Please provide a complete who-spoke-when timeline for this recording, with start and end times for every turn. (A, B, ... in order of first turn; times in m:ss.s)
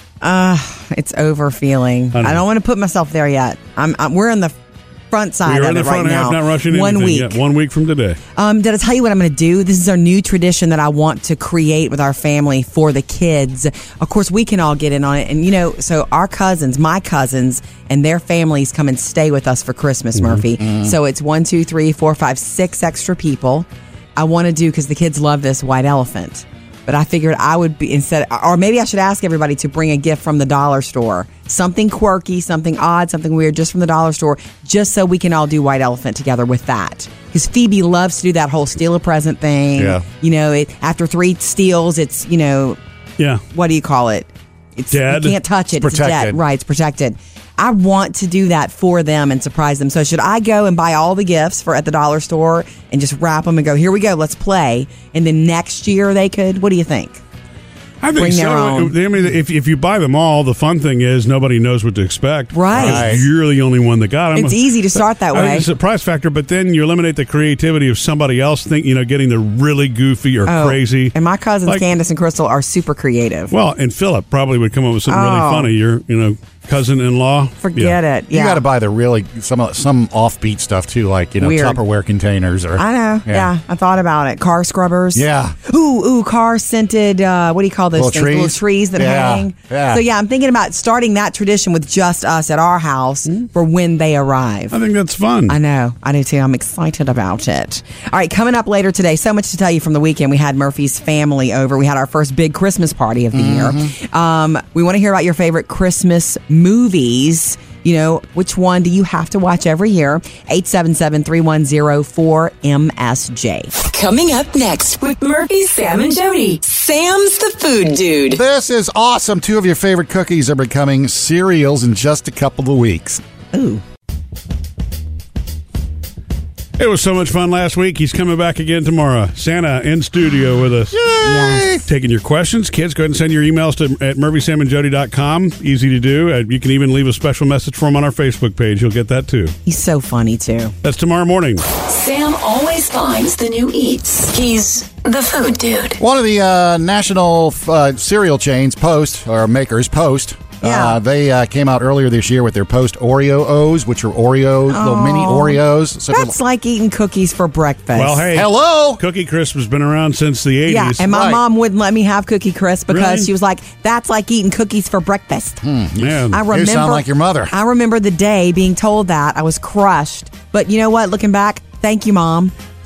0:00.2-0:04.6 A
0:02.1-0:02.4 B
0:05.1-0:07.4 A
0:05.4-0:08.2 B
0:08.4-0:42.8 A
0:20.6-0:20.9 C
0:39.8-0:40.0 C
0:43.5-0:57.2 A
0:44.9-0:45.3 B
0:45.8-0:46.4 C
0:58.0-1:11.1 B
0:58.2-0:59.0 A
1:02.5-1:03.2 A
1:02.7-1:03.3 C
1:04.3-1:05.6 A
1:10.4-1:13.5 A
1:13.5-1:18.0 B
1:15.1-1:15.7 A
1:17.6-1:18.6 A
1:18.3-1:23.5 C
1:21.4-1:21.8 A
1:22.8-1:34.7 A
1:25.1-1:25.6 C
1:27.9-1:30.0 C
1:34.7-1:35.6 B
1:35.5-1:53.7 A
1:43.3-1:43.9 C
1:53.8-1:58.4 D
1:58.3-2:03.2 C
2:03.5-2:03.8 A
2:06.8-2:11.0 B
2:10.9-2:11.8 C
2:11.2-2:11.7 A
2:11.9-2:19.5 B
2:19.6-2:20.7 A
2:20.8-2:21.6 B
2:21.8-2:26.0 D
2:26.0-2:36.4 C
2:30.6-2:31.0 A
2:34.7-2:38.2 A
2:37.9-2:41.1 B
2:38.3-2:39.0 C
2:40.7-2:45.6 A
2:41.0-2:41.4 C
2:42.9-2:43.3 B
2:45.6-2:47.5 C
2:46.0-2:46.4 B
2:46.3-2:52.5 A